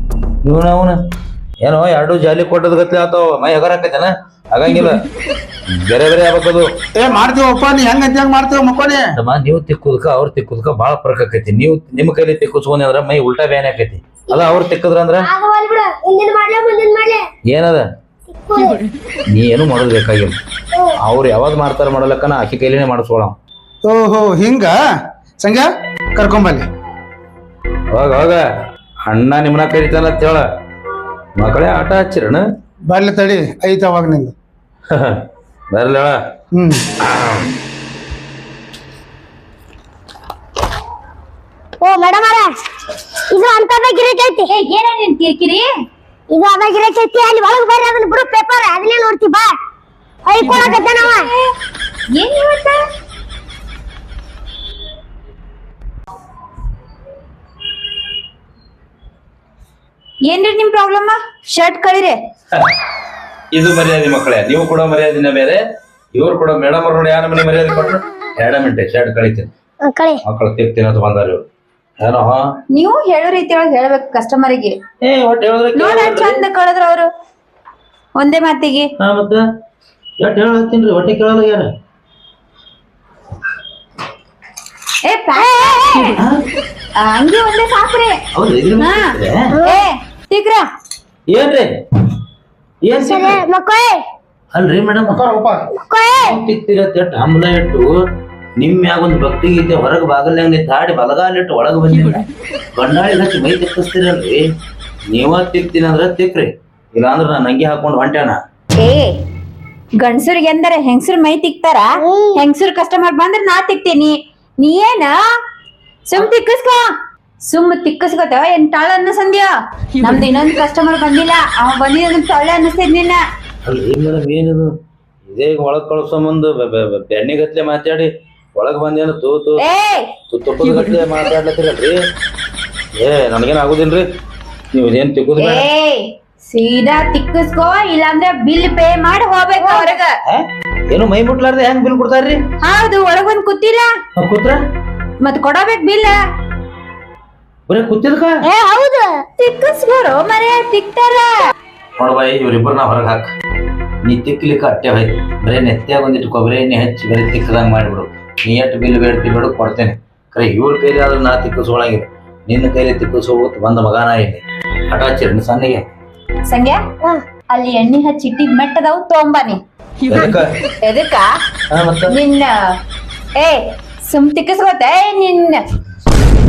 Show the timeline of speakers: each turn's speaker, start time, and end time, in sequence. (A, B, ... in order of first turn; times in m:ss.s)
0:00.4-0:01.0 A
0:01.6-0:05.0 A
0:05.7-0:06.7 A
0:07.0-0:09.1 B
0:09.2-0:15.3 A
0:14.3-0:14.6 C
0:15.2-0:17.2 C
0:17.5-0:17.9 A
0:18.3-0:18.8 C
0:19.3-0:20.4 A
0:21.0-0:23.4 A
0:23.9-0:24.8 B
0:25.4-0:26.7 B
0:27.9-0:28.4 A
0:29.0-0:30.4 A
0:31.4-0:32.5 A
0:32.9-0:34.3 B
0:34.9-0:36.2 A
0:36.5-0:36.8 B
0:37.0-0:37.6 A
0:41.8-0:42.5 C
0:43.3-0:44.5 C
0:44.5-0:45.7 D
0:46.3-0:49.5 C
0:50.2-0:51.3 C
0:50.4-0:51.5 D
0:52.1-0:52.8 D
1:00.3-1:02.2 D
1:03.5-1:05.6 A
1:06.1-1:09.5 A
1:09.8-1:10.2 C
1:10.2-1:11.4 A
1:12.0-1:12.5 A
1:12.7-1:14.8 D
1:15.0-1:16.4 A
1:15.7-1:17.1 D
1:18.2-1:18.9 D
1:19.0-1:19.4 A
1:20.2-1:21.7 A
1:25.0-1:26.2 D
1:25.4-1:26.2 C
1:26.2-1:26.4 A
1:27.0-1:28.2 D
1:28.4-1:29.5 A
1:28.8-1:30.7 D
1:29.5-1:29.8 C
1:31.3-1:31.7 A
1:32.8-1:33.4 A
1:32.9-1:34.0 C
1:34.5-1:35.2 A
1:35.1-1:35.6 B
1:35.8-1:36.4 C
1:36.2-1:37.9 A
1:38.6-1:44.4 A
1:45.1-1:48.4 A
1:48.8-1:49.2 D
1:50.0-1:55.3 D
1:52.0-1:52.4 C
1:56.1-1:56.9 D
1:57.4-2:03.2 D
2:03.6-2:04.7 A
2:05.3-2:09.6 A
2:09.6-2:10.1 D
2:10.3-2:12.0 A
2:13.0-2:14.1 A
2:14.7-2:15.7 A
2:15.4-2:20.2 D
2:19.6-2:20.0 C
2:20.2-2:22.4 A
2:22.6-2:23.9 D
2:24.2-2:24.6 A
2:25.2-2:26.2 D
2:27.7-2:28.4 A
2:28.4-2:29.2 C
2:29.4-2:31.4 D
2:32.0-2:33.3 A
2:34.0-2:45.8 A
2:46.5-2:46.8 D
2:47.5-2:49.6 D
2:50.1-2:50.5 A
2:50.8-2:51.3 D
2:51.7-2:52.1 A
2:52.1-2:52.7 D
2:53.4-2:55.6 D